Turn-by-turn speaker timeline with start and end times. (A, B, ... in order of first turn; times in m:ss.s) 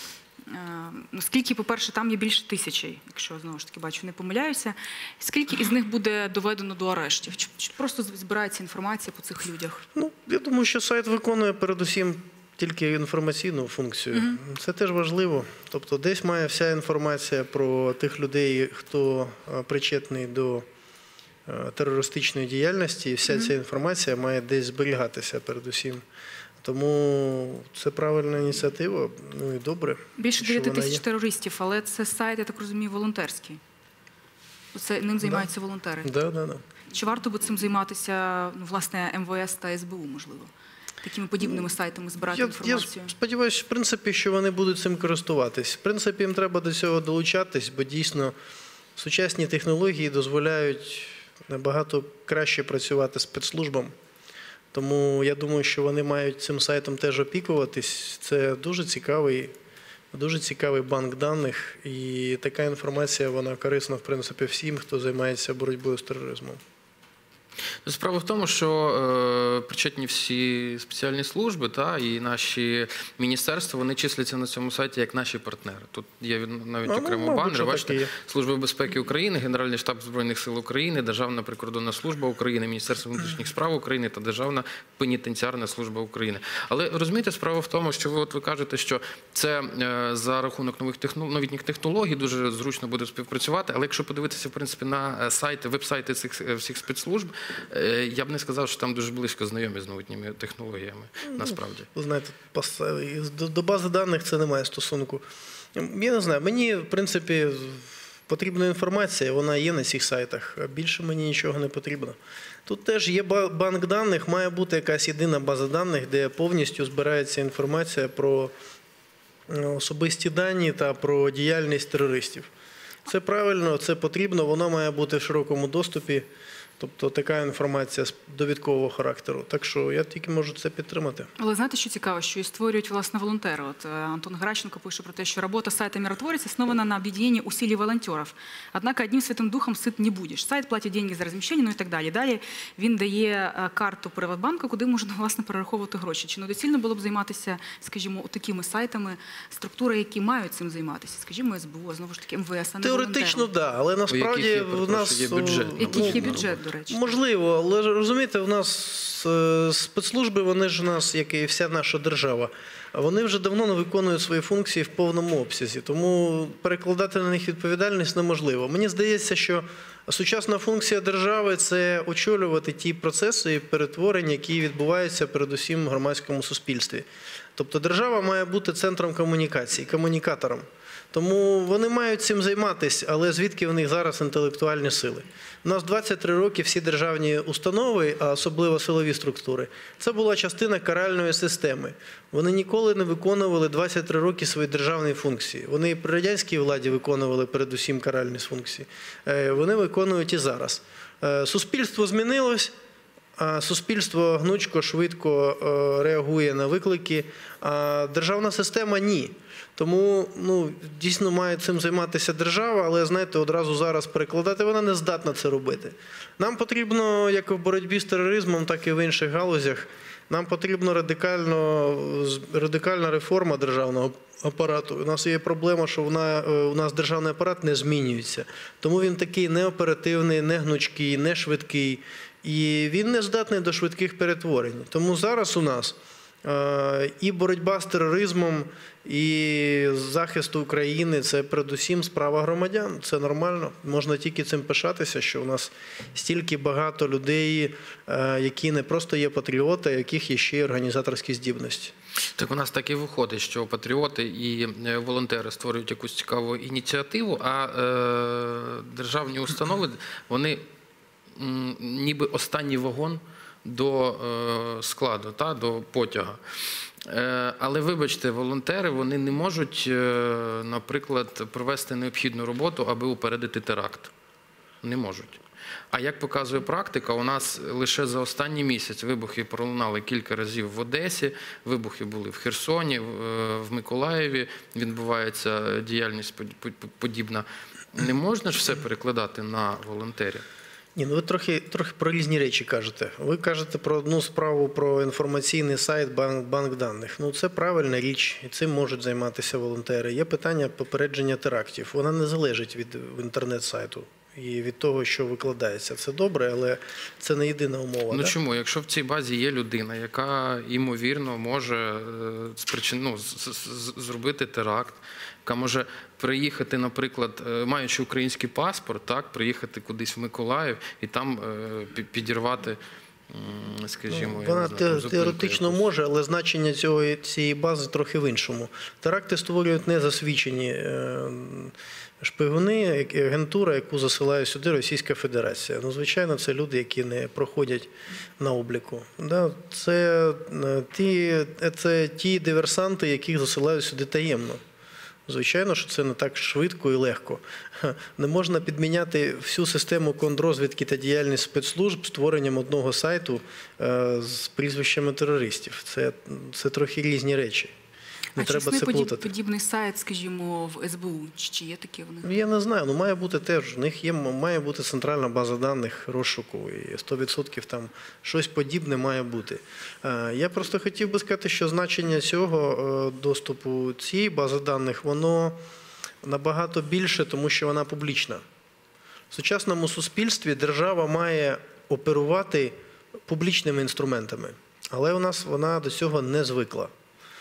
0:00.4-0:09.8 A
0:10.0-0:20.6 B
0:14.1-0:14.4 A
0:21.5-0:26.0 B
0:26.6-0:31.0 B
0:30.2-0:33.6 A
0:34.7-0:36.1 A
0:36.0-0:36.6 B
0:36.9-0:40.5 A
0:41.0-0:43.1 A
0:42.3-0:48.3 B
0:49.0-0:53.9 B
0:54.7-0:59.5 B
1:00.1-1:06.6 B
1:07.8-1:41.9 C
1:16.8-1:18.1 B
1:41.3-1:45.2 B
1:45.8-1:58.5 B
1:59.5-2:02.5 B
2:03.1-2:06.3 B
2:06.8-2:11.3 B
2:11.4-2:33.5 A
2:32.8-3:22.7 B
2:34.1-2:36.5 C
2:35.8-2:37.2 A
3:23.4-4:11.9 B
4:12.4-4:20.6 C
4:21.4-4:26.4 C
4:27.1-4:34.1 C
4:34.8-4:35.4 C
4:35.9-4:50.4 C
4:51.0-5:08.4 B
5:08.1-5:25.9 C
5:24.1-5:44.6 B
5:45.3-5:57.7 B
5:58.4-6:02.3 A
5:58.4-5:59.3 B
6:02.2-6:15.6 B
6:16.2-6:18.4 B
6:19.3-6:22.8 B
6:23.3-6:26.9 B